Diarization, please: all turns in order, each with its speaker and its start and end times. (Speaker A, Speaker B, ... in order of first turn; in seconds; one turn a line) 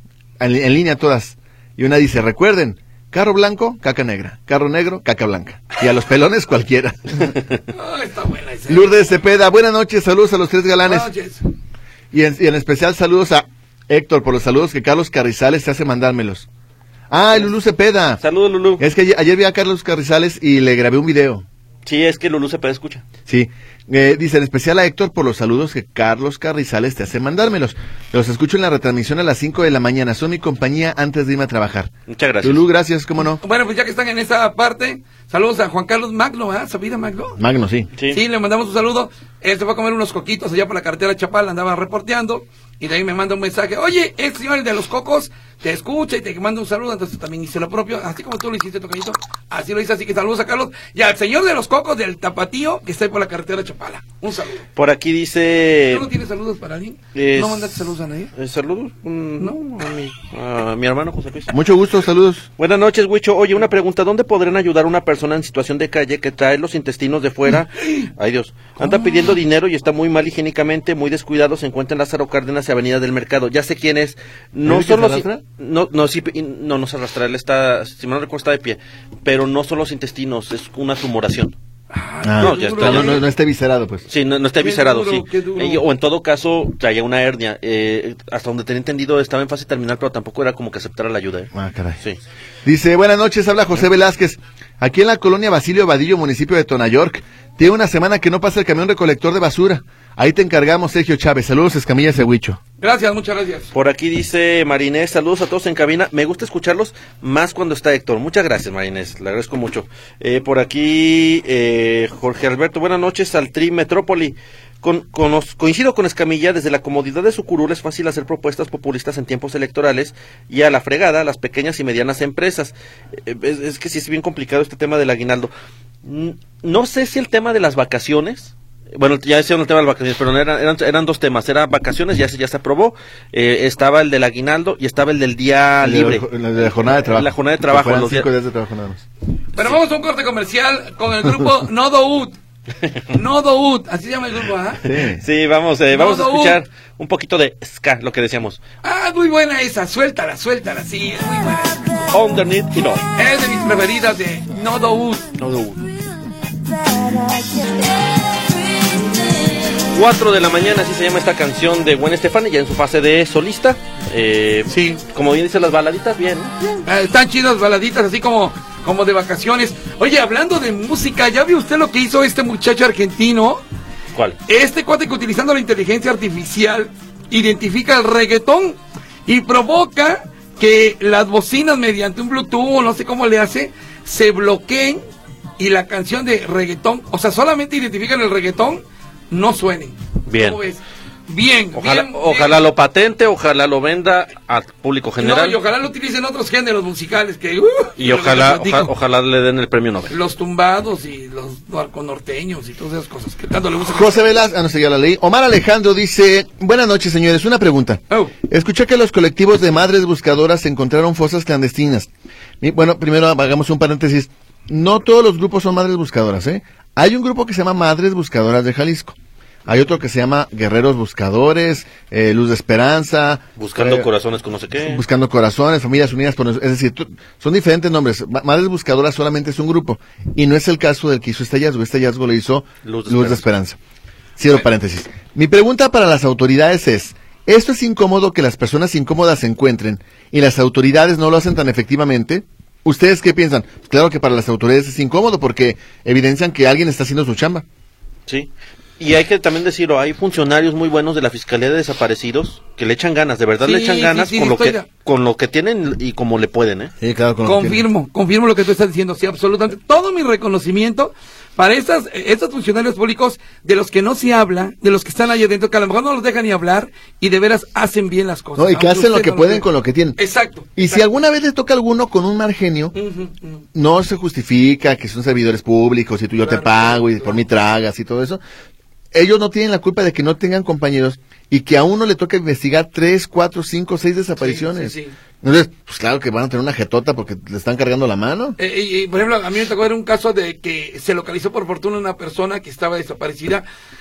Speaker A: 0.4-7.4
Speaker B: 7.7-9.0
Speaker A: 8.7-11.1
Speaker B: 10.8-11.5
Speaker A: 12.1-16.5
Speaker A: 17.1-18.2
Speaker C: 18.2-18.8
Speaker A: 18.8-21.4
Speaker C: 21.9-23.1
Speaker A: 23.3-31.9
Speaker C: 32.1-32.6
Speaker A: 32.4-33.4
Speaker B: 33.4-37.4
Speaker A: 37.4-37.9
Speaker B: 38.1-54.7
Speaker C: 54.8-56.1
Speaker B: 55.9-58.3
Speaker C: 57.1-57.8
Speaker C: 58.4-61.5
Speaker A: 61.5-62.5
Speaker C: 62.6-81.5
Speaker B: 67.8-68.1
Speaker B: 68.8-69.4
Speaker A: 74.6-75.4
Speaker B: 81.9-83.2
Speaker A: 82.2-84.0
Speaker C: 82.4-83.2
Speaker C: 84.1-91.5
Speaker B: 84.6-85.8
Speaker A: 91.5-92.0
Speaker A: 92.6-102.6
Speaker B: 102.8-103.7
Speaker C: 103.7-125.5
Speaker C: 126.0-138.3
Speaker A: 135.8-139.0
Speaker B: 139.6-142.3
Speaker B: 143.1-144.9
Speaker A: 144.8-145.2
Speaker C: 145.2-148.6
Speaker B: 145.9-146.6
Speaker B: 148.8-152.1
Speaker C: 152.1-153.1
Speaker B: 153.2-155.3
Speaker C: 155.4-155.8
Speaker C: 159.8-166.8
Speaker B: 164.7-165.0
Speaker B: 166.8-173.6
Speaker B: 174.4-185.0
Speaker B: 185.6-192.6
Speaker C: 190.2-190.6
Speaker C: 191.7-195.6
Speaker B: 195.2-198.9
Speaker C: 198.0-200.1
Speaker B: 200.1-204.2
Speaker A: 203.9-212.1
Speaker A: 212.6-219.1
Speaker A: 219.7-224.1
Speaker C: 223.6-225.0
Speaker A: 224.8-233.8
Speaker C: 232.8-233.4
Speaker A: 234.4-247.6
Speaker C: 248.3-256.9
Speaker B: 253.6-254.9
Speaker A: 257.0-257.8
Speaker B: 257.4-271.0
Speaker A: 268.6-270.2
Speaker A: 270.8-272.9
Speaker B: 272.9-273.6
Speaker A: 273.7-278.4
Speaker B: 276.4-277.4
Speaker A: 279.1-288.6
Speaker B: 284.4-285.1
Speaker B: 288.6-293.6